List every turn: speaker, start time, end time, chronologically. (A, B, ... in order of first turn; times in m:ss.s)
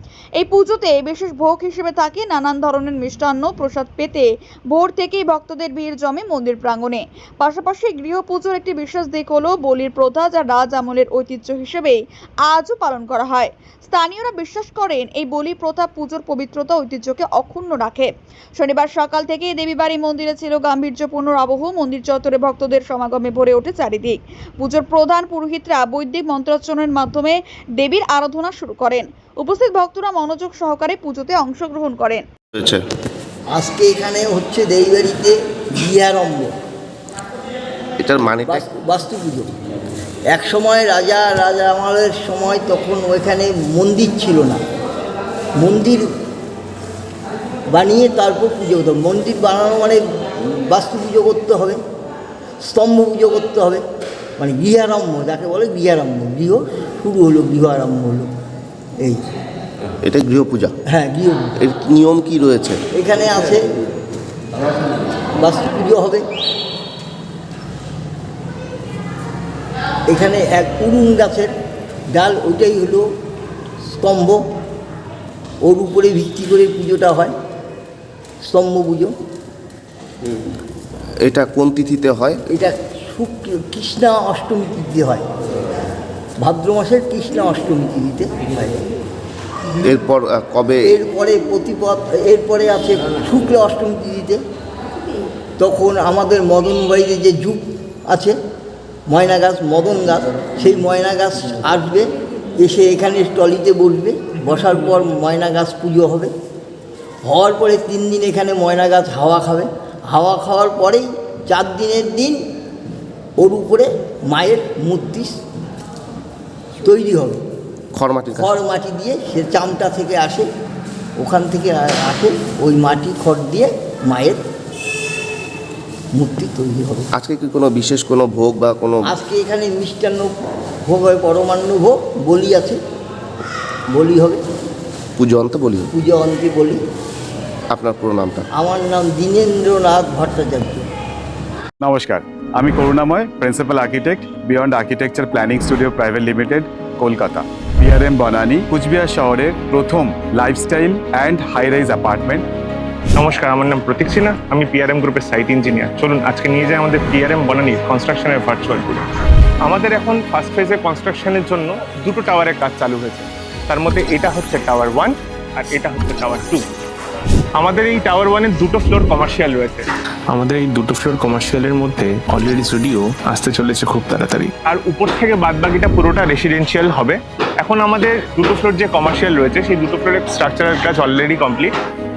0:00.4-0:32.2 A
0:32.6-0:32.8 B
0:33.5-0:36.5 C
0:38.0-0:38.6 B
0:38.5-0:39.5 C
0:40.3-0:44.6 C
0:45.6-0:46.0 C
0:47.7-0:51.8 C
0:52.6-0:53.8 C
0:54.4-0:58.3 C
1:00.0-1:00.7 B
1:00.9-1:01.6 C
1:01.6-1:02.8 B
1:02.9-1:03.6 C
1:05.4-1:06.2 C
1:10.1-1:11.5 C
1:12.2-1:13.1 C
1:13.9-1:14.4 C
1:15.6-1:17.3 C
1:18.4-1:19.1 C
1:21.2-1:22.4 B
1:22.5-1:25.2 C
1:26.4-1:28.8 C
1:29.8-1:30.9 B
1:30.8-1:34.4 C
1:35.6-1:38.4 C
1:39.1-1:42.1 C
1:42.6-1:46.3 C
1:47.3-1:52.4 C
1:53.4-1:55.4 C
1:56.8-1:57.4 C
1:57.9-1:58.6 B
1:58.4-2:00.5 C
2:01.2-2:04.4 C
2:06.2-2:07.1 C
2:07.2-2:09.1 B
2:09.1-2:10.3 C
2:10.9-2:12.8 C
2:13.9-2:14.4 C
2:15.2-2:15.9 B
2:15.9-2:16.8 C
2:17.7-2:18.5 B
2:18.5-2:20.8 C
2:21.8-2:32.5 D
2:33.2-2:39.0 E
2:39.6-2:46.6 E
2:47.6-2:49.9 E
2:50.3-2:54.5 F
2:54.7-3:01.7 E